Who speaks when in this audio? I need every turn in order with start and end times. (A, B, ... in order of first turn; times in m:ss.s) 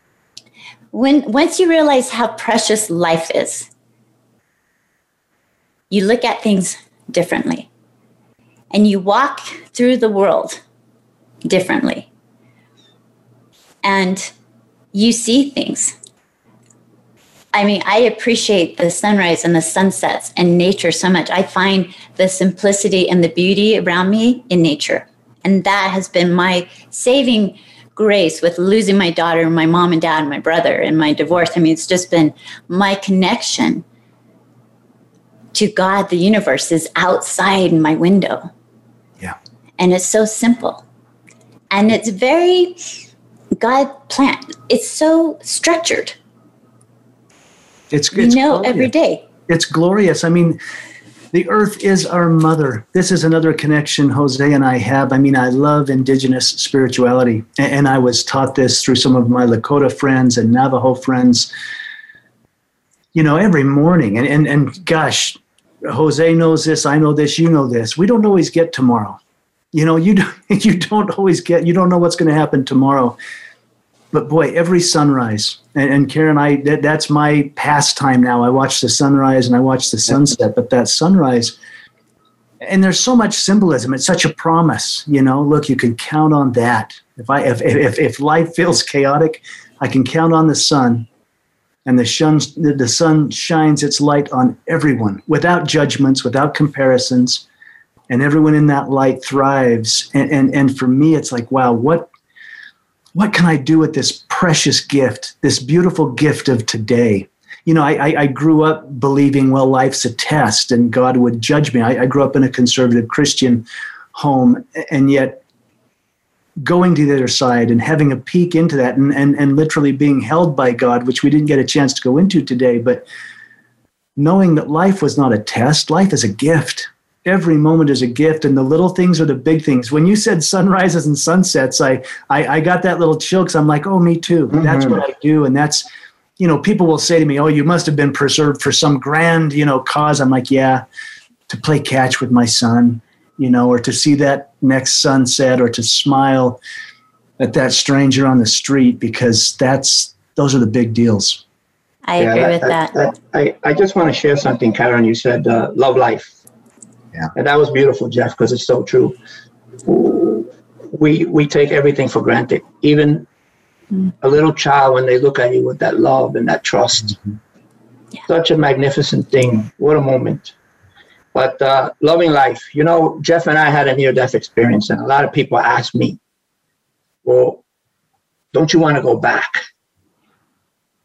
0:00.9-0:03.7 A
0:05.9-0:07.7 A
0:08.7-0:10.6 A
0:11.4-0:12.1 A
0:13.8-0:14.3 A
0:14.9-0:16.0 A
0:17.5-0:33.8 A
0:35.5-0:38.5 A
0:39.8-0:40.8 A
0:41.7-0:42.8 A
0:43.6-0:46.2 A
0:47.9-0:48.9 B
0:48.1-0:49.2 A
0:49.5-0:50.6 B
0:51.3-1:01.5 B
1:03.1-1:09.2 B
1:09.7-1:13.2 B
1:14.1-1:21.6 B
1:22.6-1:31.1 B
1:31.8-1:37.4 B
1:38.1-1:42.1 B
1:43.2-1:55.4 B
1:56.6-2:03.1 B
2:04.2-2:15.8 B
2:14.5-2:15.0 C
2:16.4-2:20.8 B
2:21.5-2:26.6 B
2:27.4-2:31.4 B
2:32.1-2:33.0 A
2:32.2-2:36.3 C
2:37.3-2:39.2 C
2:39.8-2:43.3 C
2:44.2-2:47.2 C
2:48.3-2:50.5 C
2:51.3-2:56.2 C
2:57.2-2:57.6 C
2:58.5-2:59.6 C